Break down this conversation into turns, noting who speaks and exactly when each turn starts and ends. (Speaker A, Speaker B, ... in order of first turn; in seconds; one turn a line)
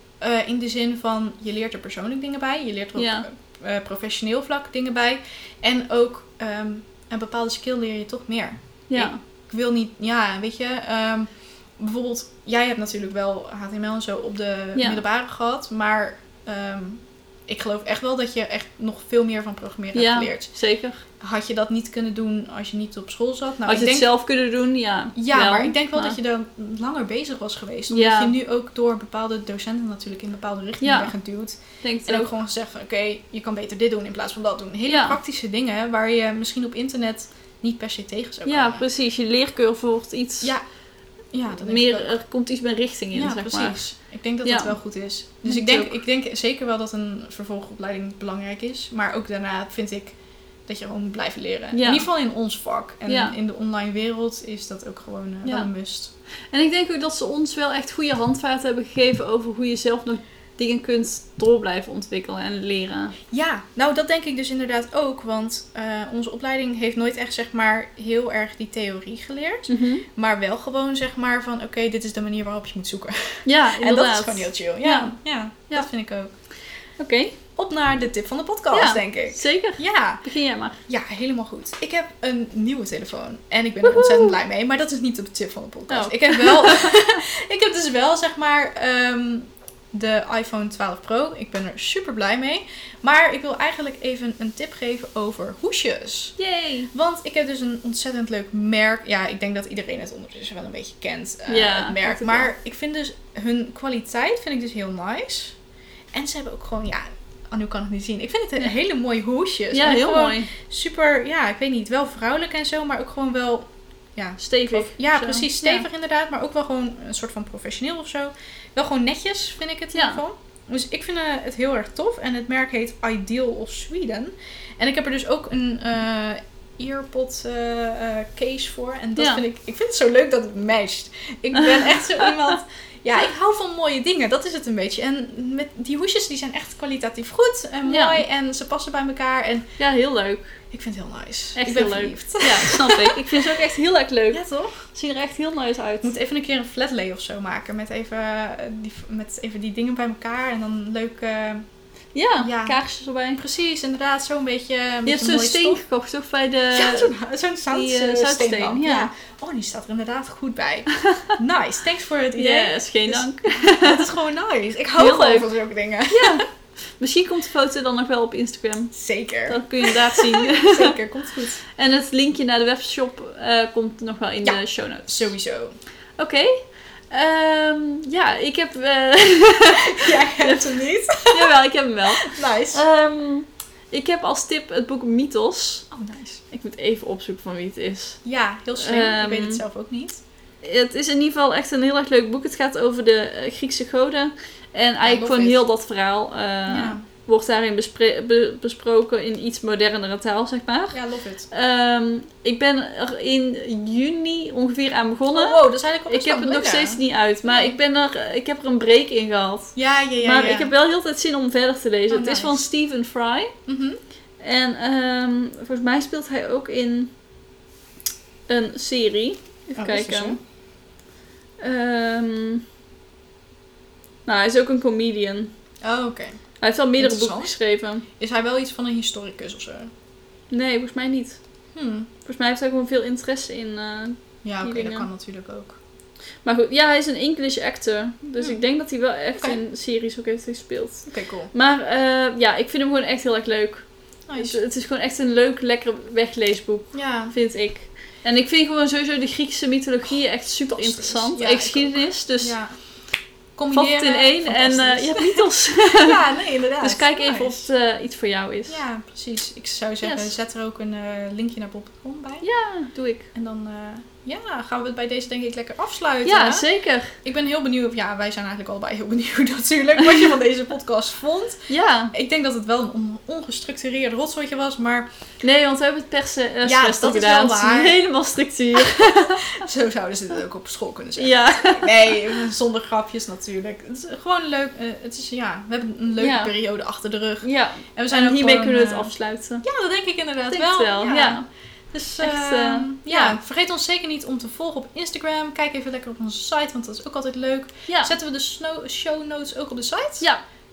Speaker A: 0.2-20.5
Speaker B: 3.0-3.2
Speaker B: 8.9-9.2
Speaker B: 14.8-15.0
Speaker B: 19.9-21.0
Speaker A: 21.2-24.1
Speaker B: 23.6-26.2
Speaker A: 25.1-38.8
Speaker B: 27.9-28.4
Speaker B: 30.8-31.1
Speaker B: 31.8-32.3
Speaker B: 34.9-35.2
Speaker B: 38.5-40.5
Speaker A: 41.3-42.2
Speaker B: 41.6-43.8
Speaker A: 43.1-50.1
Speaker B: 44.4-44.7
Speaker B: 45.5-45.9
Speaker A: 50.7-56.1
Speaker B: 51.7-52.1
Speaker B: 53.1-53.4
Speaker B: 55.4-55.7
Speaker B: 56.5-63.1
Speaker A: 63.3-76.3
Speaker B: 69.7-70.0
Speaker B: 73.5-75.1
Speaker B: 77.0-77.3
Speaker A: 77.5-80.2
Speaker B: 78.7-80.8
Speaker A: 80.8-96.3
Speaker B: 83.8-84.3
Speaker B: 85.9-87.2
Speaker B: 96.4-96.9
Speaker A: 96.9-105.6
Speaker B: 101.5-102.5
Speaker A: 106.1-113.6
Speaker B: 109.7-110.5
Speaker A: 114.2-139.7
Speaker B: 114.4-115.8
Speaker B: 119.9-120.2
Speaker B: 131.6-132.3
Speaker B: 137.8-138.2
Speaker B: 139.8-140.6
Speaker A: 140.7-143.6
Speaker B: 141.6-146.1
Speaker A: 144.3-144.9
Speaker A: 146.0-151.6
Speaker B: 152.1-153.4
Speaker A: 152.4-152.8
Speaker A: 153.4-155.8
Speaker B: 155.1-157.1
Speaker A: 156.7-166.4
Speaker B: 157.7-159.1
Speaker B: 161.0-161.3
Speaker B: 162.3-164.1
Speaker B: 164.9-165.5
Speaker B: 166.1-166.4
Speaker B: 167.0-168.9
Speaker A: 168.9-171.6
Speaker B: 169.5-170.9
Speaker B: 171.7-175.3
Speaker A: 174.4-175.8
Speaker B: 176.2-185.9
Speaker A: 179.8-181.6
Speaker A: 182.1-182.8
Speaker A: 185.9-186.4
Speaker B: 186.5-188.2
Speaker A: 188.2-190.2
Speaker B: 188.8-189.6
Speaker B: 190.6-201.0
Speaker A: 195.0-195.6
Speaker A: 196.7-197.0
Speaker A: 200.9-201.5
Speaker B: 201.5-213.5
Speaker A: 205.3-207.8
Speaker A: 209.8-210.7
Speaker A: 212.1-212.6
Speaker A: 213.7-214.0
Speaker B: 214.4-217.1
Speaker B: 218.5-220.4
Speaker A: 219.7-220.4
Speaker B: 221.6-222.6
Speaker B: 224.2-225.5
Speaker A: 225.8-226.4
Speaker B: 226.6-228.0
Speaker A: 227.0-227.5
Speaker A: 228.2-229.9
Speaker B: 230.5-231.4
Speaker A: 231.7-232.1
Speaker B: 232.2-235.1
Speaker A: 234.4-235.8
Speaker B: 236.4-252.6
Speaker A: 239.3-239.6
Speaker A: 241.1-241.5
Speaker A: 244.3-244.6
Speaker A: 246.9-247.3
Speaker A: 250.7-252.7
Speaker A: 253.6-257.6
Speaker B: 253.7-256.2
Speaker B: 256.8-258.8
Speaker A: 258.7-262.4
Speaker B: 260.0-260.3
Speaker B: 262.4-263.3
Speaker A: 263.3-266.6
Speaker B: 266.2-267.1
Speaker A: 267.2-275.1
Speaker B: 271.7-272.1
Speaker B: 275.4-279.6
Speaker A: 276.6-278.0
Speaker A: 278.9-289.1
Speaker B: 281.2-282.2
Speaker B: 286.2-286.5
Speaker B: 287.4-289.6
Speaker A: 289.6-300.3
Speaker B: 290.5-291.4
Speaker B: 292.2-293.4